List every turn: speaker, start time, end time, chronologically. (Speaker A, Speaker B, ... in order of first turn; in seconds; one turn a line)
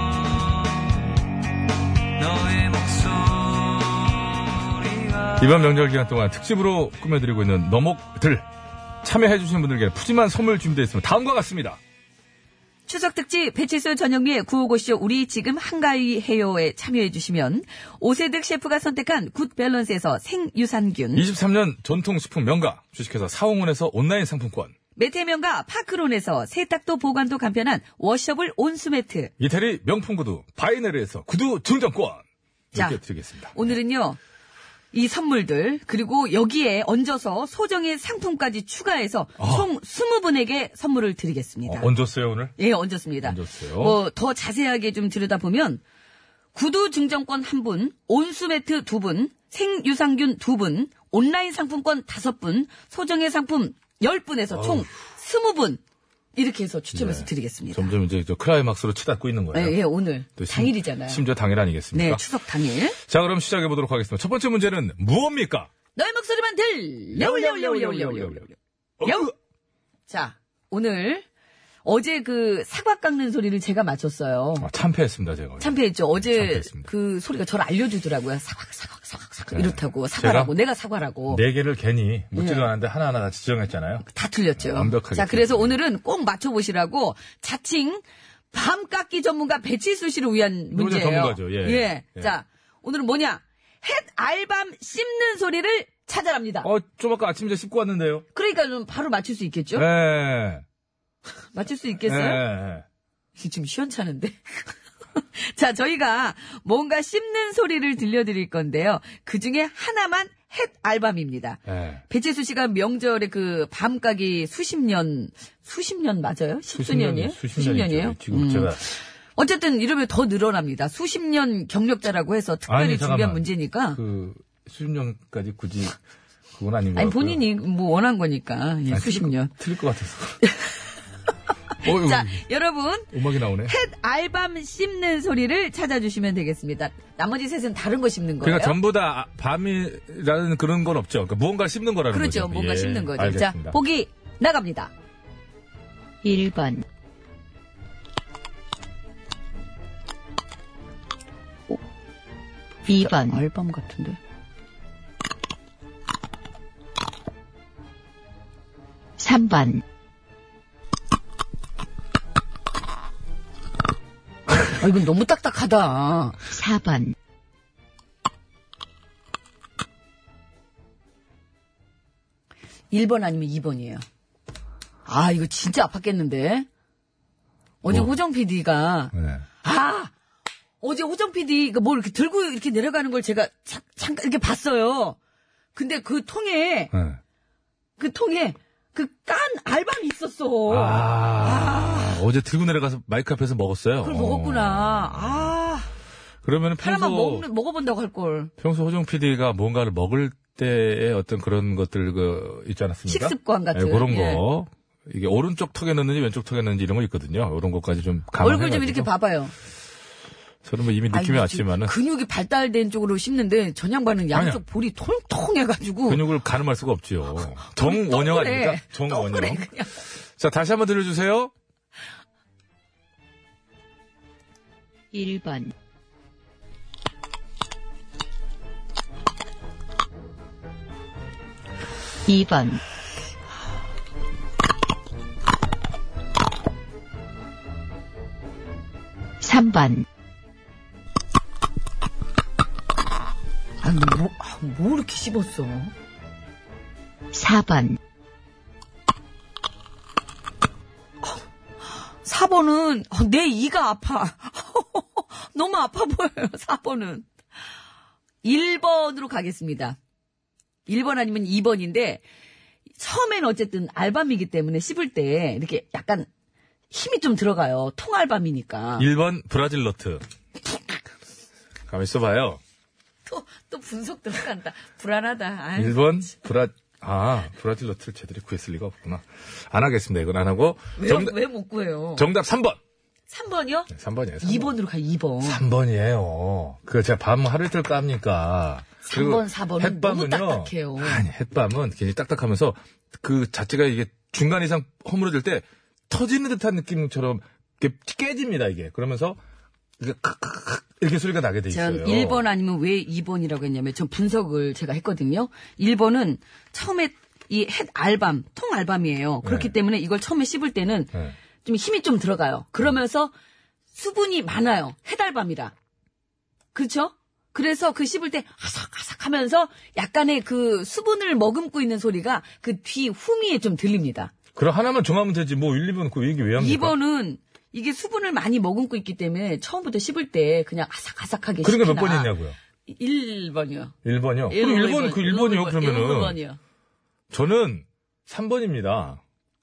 Speaker A: 5.3-8.5
Speaker A: 9.0-11.8
Speaker B: 12.9-21.2
Speaker A: 21.1-24.7
Speaker B: 24.9-29.3
Speaker A: 29.4-33.6
Speaker B: 32.7-33.0
Speaker B: 33.5-34.2
Speaker B: 34.9-41.9
Speaker A: 39.4-39.7
Speaker A: 41.6-42.5
Speaker B: 42.6-45.8
Speaker A: 43.2-44.0
Speaker B: 46.5-55.8
Speaker A: 54.5-54.9
Speaker B: 56.4-57.9
Speaker A: 56.9-59.8
Speaker B: 59.5-61.2
Speaker A: 60.4-62.2
Speaker B: 61.9-63.0
Speaker A: 63.1-65.7
Speaker B: 66.0-69.3
Speaker A: 67.1-68.5
Speaker A: 69.0-69.3
Speaker B: 70.1-71.2
Speaker B: 71.8-74.7
Speaker A: 74.6-76.9
Speaker B: 75.6-81.4
Speaker A: 79.5-80.5
Speaker A: 81.3-84.0
Speaker B: 82.3-82.7
Speaker B: 84.1-96.7
Speaker A: 84.6-85.7
Speaker A: 90.7-92.3
Speaker A: 96.6-98.2
Speaker B: 98.3-99.9
Speaker A: 99.7-100.6
Speaker B: 101.5-102.4
Speaker A: 102.0-102.8
Speaker B: 103.4-124.0
Speaker A: 111.7-112.0
Speaker A: 116.7-118.8
Speaker A: 122.7-126.0
Speaker A: 126.5-127.4
Speaker B: 127.0-129.5
Speaker A: 128.9-130.4
Speaker A: 131.8-132.4
Speaker B: 131.8-133.1
Speaker A: 133.1-133.7
Speaker B: 133.7-138.8
Speaker A: 138.4-143.8
Speaker B: 142.1-144.9
Speaker C: 146.2-146.8
Speaker C: 152.9-153.4
Speaker B: 153.1-154.2
Speaker C: 159.2-159.8
Speaker B: 164.6-166.4
Speaker C: 166.5-167.1
Speaker B: 172.9-174.0
Speaker B: 175.1-176.7
Speaker B: 177.8-180.1
Speaker A: 177.9-178.1
Speaker A: 179.1-179.4
Speaker B: 180.8-185.2
Speaker B: 185.7-186.9
Speaker A: 186.9-187.2
Speaker B: 188.0-192.2
Speaker A: 190.7-195.6
Speaker B: 194.0-195.9
Speaker A: 196.4-197.5
Speaker B: 196.8-198.5
Speaker A: 198.6-209.1
Speaker B: 203.1-204.4
Speaker B: 208.4-209.5
Speaker A: 210.6-211.9
Speaker B: 211.1-216.2
Speaker A: 214.3-214.6
Speaker A: 216.1-219.7
Speaker B: 217.6-219.9
Speaker A: 220.4-221.5
Speaker C: 225.1-225.7
Speaker C: 232.3-232.8
Speaker C: 239.4-240.0
Speaker B: 243.8-245.9
Speaker C: 247.3-248.0
Speaker B: 252.2-257.2
Speaker B: 258.4-260.0
Speaker B: 260.9-262.2
Speaker B: 263.0-266.3
Speaker B: 266.9-269.1
Speaker A: 269.0-270.2
Speaker A: 271.9-272.6
Speaker B: 273.2-276.3
Speaker A: 275.7-281.4
Speaker B: 280.9-282.3
Speaker A: 282.1-282.8
Speaker B: 283.3-283.9
Speaker A: 283.9-284.8
Speaker B: 284.4-285.6
Speaker A: 285.4-299.4
Speaker B: 289.0-291.2
Speaker A: 300.0-302.4
Speaker B: 301.7-311.1
Speaker A: 309.4-309.7
Speaker B: 311.6-313.3
Speaker B: 313.9-315.7
Speaker B: 316.7-324.3
Speaker A: 324.5-326.9
Speaker B: 326.6-332.3
Speaker A: 331.6-332.6
Speaker B: 332.9-333.9
Speaker A: 334.0-336.4
Speaker B: 334.5-336.6
Speaker A: 337.3-339.2